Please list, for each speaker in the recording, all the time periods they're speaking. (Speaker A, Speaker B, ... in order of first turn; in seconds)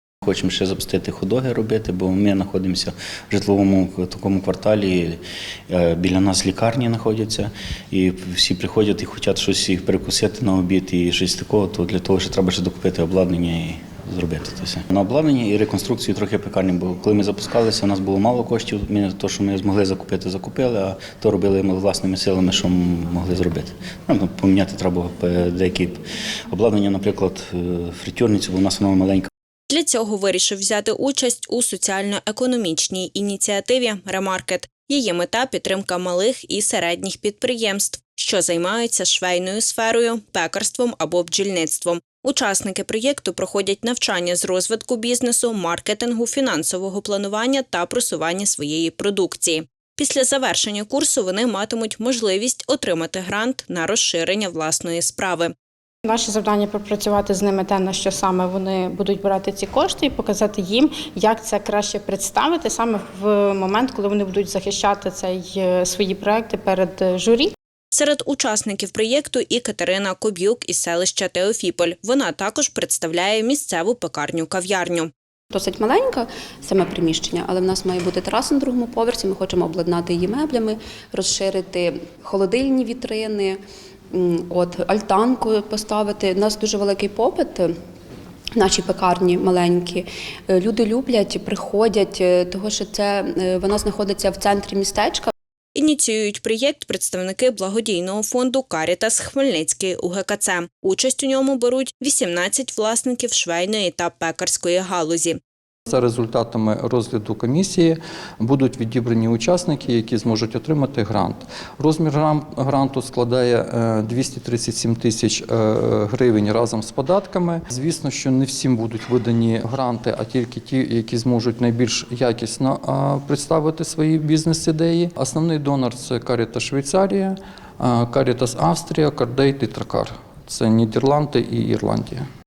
Speaker A: 0.2-29.3
Speaker B: 29.7-55.5, 67.9-75.1, 95.8-105.4
Speaker C: 56.0-67.5
Speaker D: 75.5-83.6, 84.1-87.7, 88.6-95.3
Speaker E: 105.9-132.2